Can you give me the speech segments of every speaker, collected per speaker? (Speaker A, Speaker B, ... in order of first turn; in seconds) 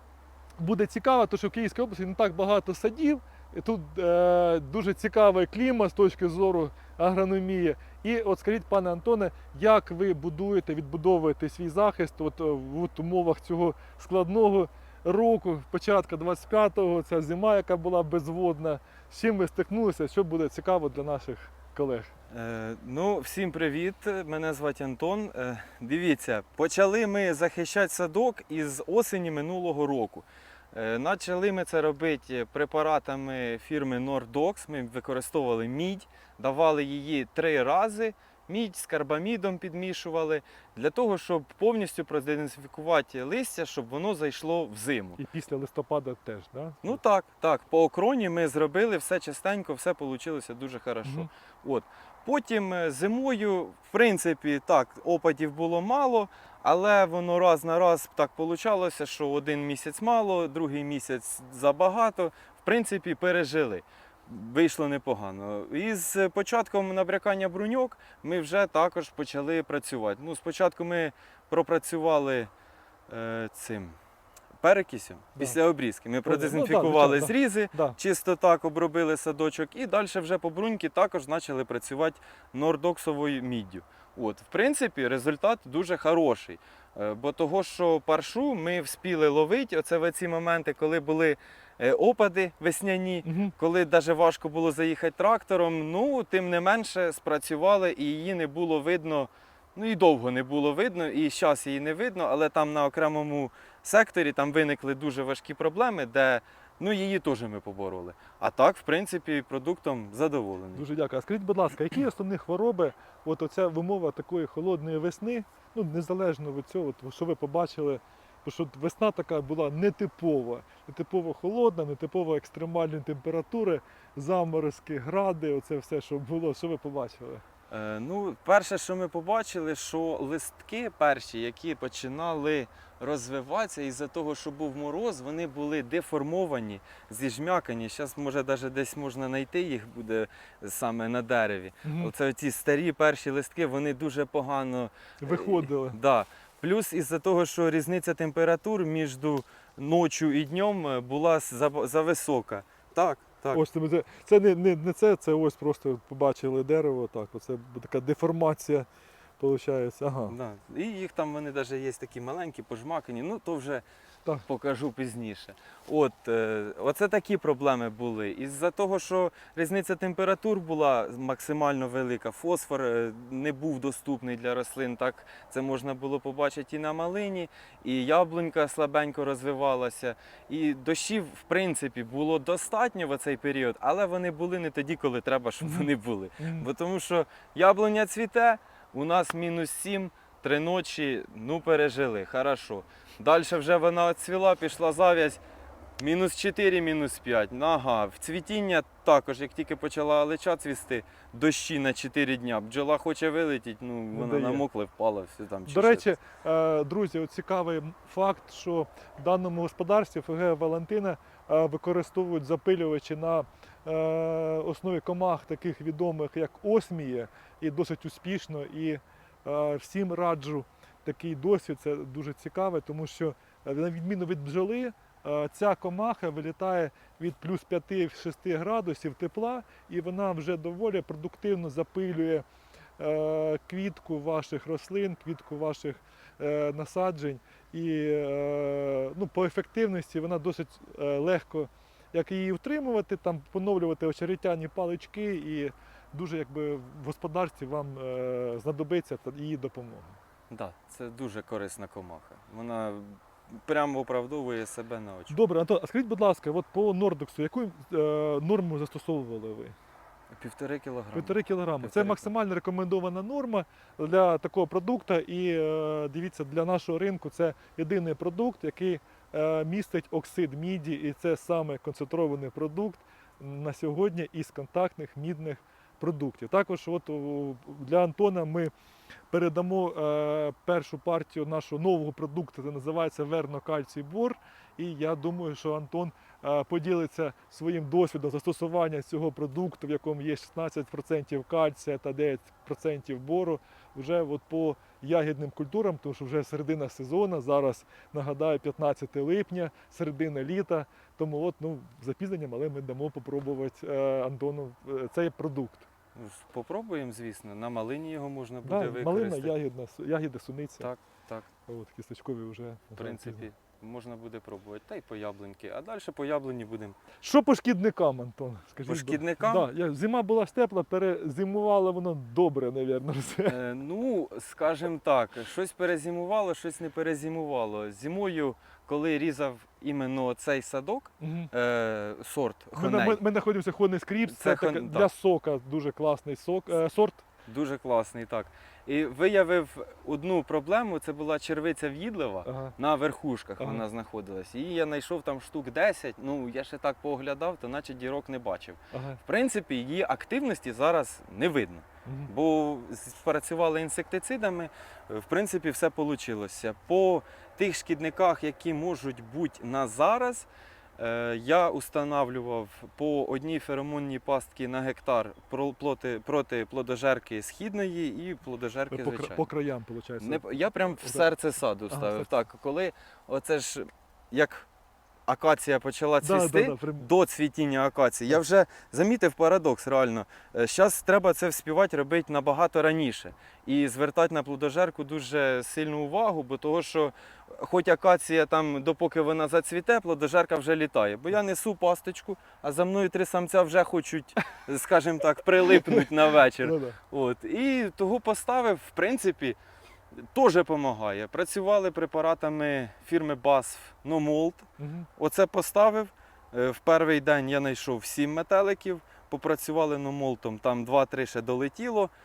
Speaker A: 0.6-22.1, 45.2-47.0, 76.2-78.0, 93.2-93.5, 110.8-127.4, 141.8-142.1, 145.2-146.0, 153.5-158.9, 159.4-160.4, 185.6-185.9, 186.4-186.7, 204.1-204.6, 205.7-232.4, 233.0-250.2, 255.3-259.8, 261.1-278.7, 279.3-305.9, 308.6-310.9, 311.7-313.4, 317.2-323.6, 331.2-331.5, 332.7-337.2, 342.4-342.8, 348.9-349.2, 352.1-352.3, 368.9-371.3, 371.9-372.3, 376.2-377.1, 396.6-397.0, 404.8-405.1
Speaker B: 22.3-45.2, 46.8-72.5, 73.1-73.9, 74.6-110.8, 127.7-153.6, 160.3-163.8, 164.4-195.4, 196.0-206.1, 250.5-255.3, 260.3-262.3, 306.1-309.6, 310.8-311.5, 313.0-317.0, 318.9-319.7, 323.4-333.2, 334.3-335.1, 337.5-360.5, 361.0-369.5, 370.2-374.7, 375.3-399.6, 400.1-404.7, 405.2-412.1